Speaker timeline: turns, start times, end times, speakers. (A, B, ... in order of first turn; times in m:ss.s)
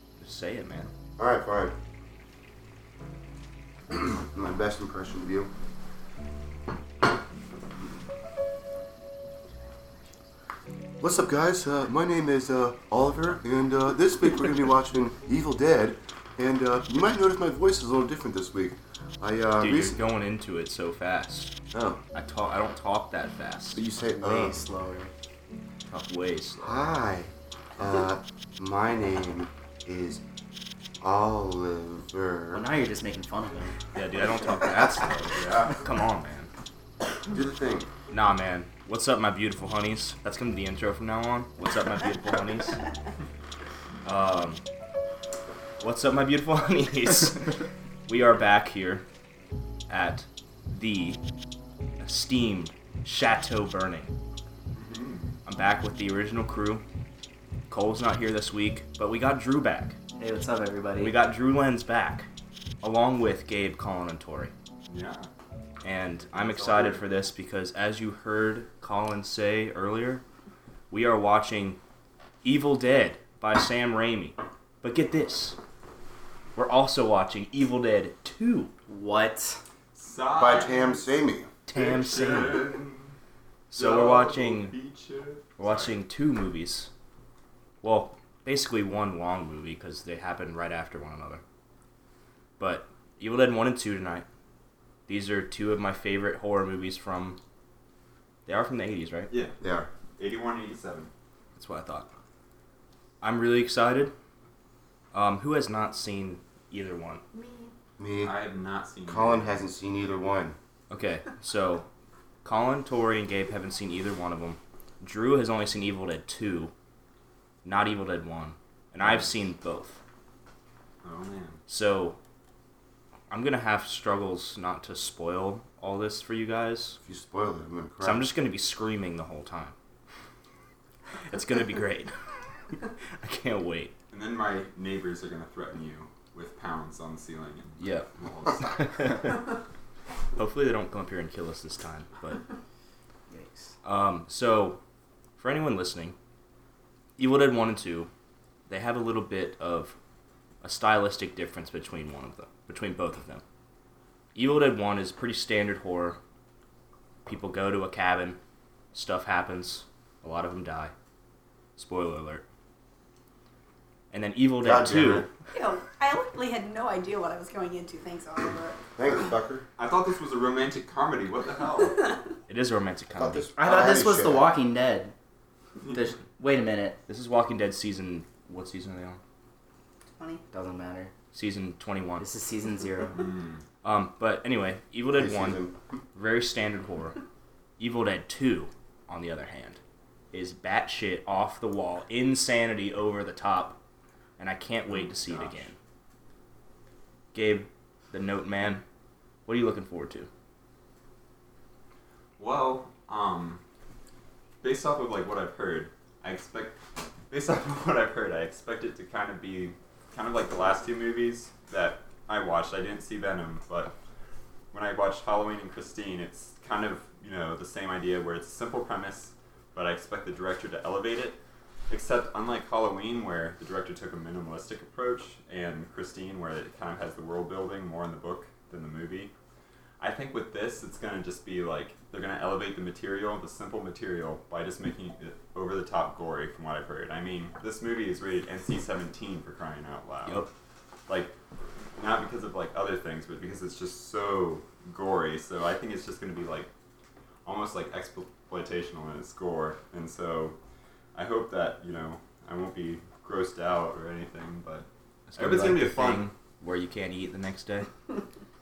0:00.2-0:00.9 A
0:01.2-0:01.7 B
0:03.9-0:05.5 B
0:11.0-0:20.0 B
0:19.6-0:21.5 A
0:21.7-0:22.0 B
0:22.1-0:24.0 A
0:23.7-0:24.6 B
0:24.1-0:25.1 C
0:25.9-0:26.9 A
0:26.6-0:30.2 B
0:31.0-0:32.6 B
0:32.5-0:33.7 C
0:33.9-0:36.5 A
0:35.3-0:35.8 D
0:37.3-0:37.9 B
0:38.1-0:42.8 A
0:44.0-0:44.6 A
0:45.8-0:47.5 A
0:48.0-0:49.0 A
0:49.9-0:51.2 A
0:52.0-0:54.1 A
0:54.8-0:55.3 D
0:55.4-0:56.8 A
0:57.7-1:00.0 A
1:00.2-1:01.2 C
1:01.0-1:02.3 A
1:02.8-1:04.5 A
1:04.9-1:05.3 D
1:05.8-1:10.2 A
1:06.3-1:07.0 D
1:10.9-1:11.8 A
1:12.4-1:15.6 A
1:16.6-1:18.7 A
1:18.9-1:19.6 C
1:19.9-1:21.2 D
1:20.3-1:21.5 B
1:21.7-1:22.7 A
1:21.7-1:23.1 D
1:21.9-1:22.5 C
1:23.7-1:24.7 A
1:23.7-1:26.0 D
1:25.6-1:26.9 A
1:27.8-1:31.4 A
1:32.6-1:34.2 A
1:35.1-1:37.4 A
1:38.4-1:39.3 A
1:39.3-1:39.6 D
1:39.6-1:39.9 B
1:40.2-1:41.1 D
1:41.6-1:42.1 A
1:43.2-1:44.1 A
1:45.1-1:47.2 A
1:47.3-1:47.7 E
1:48.0-1:48.4 B
1:48.2-1:49.6 D
1:49.0-1:50.6 B
1:50.9-1:51.9 A
1:52.4-1:56.7 A
1:57.6-2:00.0 A
1:59.0-1:59.3 D
2:01.0-2:01.6 D
2:01.7-2:02.2 A
2:03.3-2:07.0 A
2:07.0-2:08.2 B
2:08.0-2:09.7 A
2:11.3-2:12.1 A
2:13.2-2:13.9 A
2:14.1-2:19.2 D
2:17.8-2:18.1 A
2:18.6-2:19.4 A
2:20.4-2:22.4 A
2:23.3-2:23.7 C
2:23.8-2:24.8 A
2:25.4-2:26.1 A
2:27.2-2:28.1 A
2:28.7-2:30.0 A
2:30.6-2:33.4 A
2:34.3-2:36.2 A
2:37.2-2:38.4 A
2:38.9-2:40.9 A
2:41.8-2:42.4 A
2:44.1-2:45.3 A
2:44.6-2:45.3 B
2:45.5-2:48.8 E
2:49.0-2:49.7 B
2:49.8-2:52.1 D
2:52.5-2:53.6 A
2:53.2-2:54.5 B
2:53.6-2:55.1 C
2:55.9-2:57.0 C
2:57.1-2:59.2 A
3:00.2-3:00.4 E
3:00.5-3:01.1 C
3:01.3-3:02.3 A
3:02.2-3:03.3 C
3:03.1-3:03.6 D
3:03.8-3:07.2 A
3:05.1-3:05.8 B
3:07.8-3:09.8 A
3:10.3-3:13.8 A
3:14.4-3:15.8 A
3:14.9-3:15.7 D
3:17.3-3:18.8 A
3:19.4-3:20.3 A
3:22.4-3:23.6 D
3:24.6-3:26.8 D
3:27.3-3:34.0 D
3:34.7-3:49.3 D
3:50.0-4:00.5 D
4:00.2-4:00.5 A
4:01.1-4:01.3 D
4:02.0-4:06.7 D
4:07.4-4:10.6 D
4:11.1-4:16.3 D
4:15.3-4:17.9 A